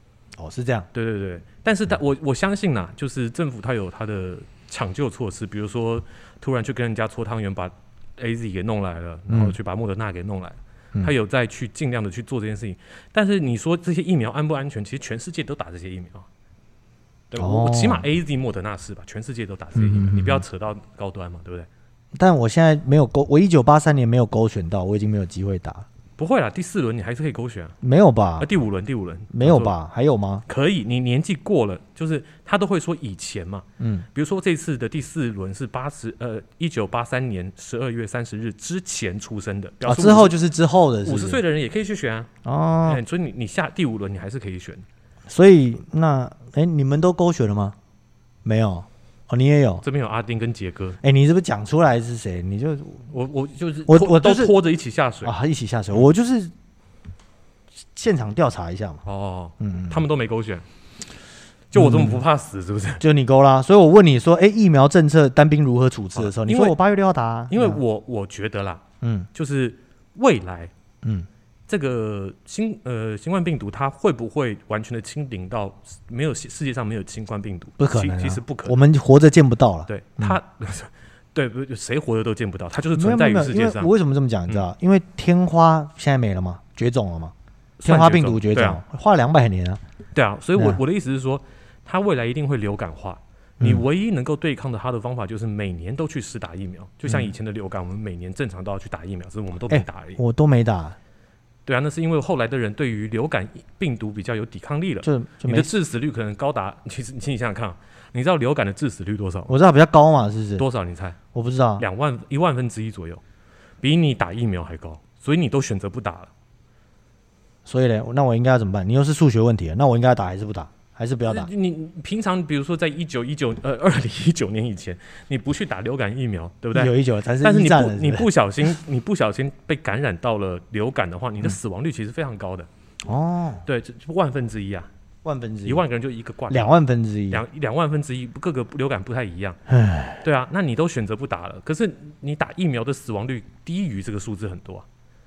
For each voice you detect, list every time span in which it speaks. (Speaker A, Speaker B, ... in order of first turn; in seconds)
Speaker A: 0.4-0.9, 9.3-9.6, 17.4-18.1, 19.8-20.4, 22.1-25.9, 27.8-28.5, 29.3-30.4, 33.8-34.1, 39.8-41.4, 42.5-43.0, 45.3-47.8, 48.5-49.8, 51.0-53.0, 53.9-54.5, 55.2-56.5, 58.0-59.0, 59.6-60.0, 61.8-62.2, 63.0-67.8, 69.0-69.3, 71.0-71.3, 77.8-80.4, 82.9-89.8, 93.6-93.8, 97.1-97.3, 99.7-101.0, 105.0-105.7, 109.5-110.7, 111.3-111.8, 117.7-121.5, 126.7-128.3, 133.1-133.6, 135.2-135.8, 136.5-137.4, 139.7-140.2
Speaker B: 0.9-16.3, 17.3-21.7, 26.2-27.8, 28.4-29.7, 30.5-40.4, 41.0-42.3, 42.9-44.9, 49.8-51.0, 53.1-55.3, 59.0-60.6, 61.7-63.0, 66.2-66.8, 67.5-68.8, 69.3-70.7, 71.7-78.8, 79.9-83.9, 87.8-88.8, 90.2-100.2, 101.7-109.5, 110.6-111.2, 111.8-113.2, 113.8-116.3, 121.3-132.7, 133.7-134.9, 135.7-136.8, 137.3-139.6, 140.2-144.8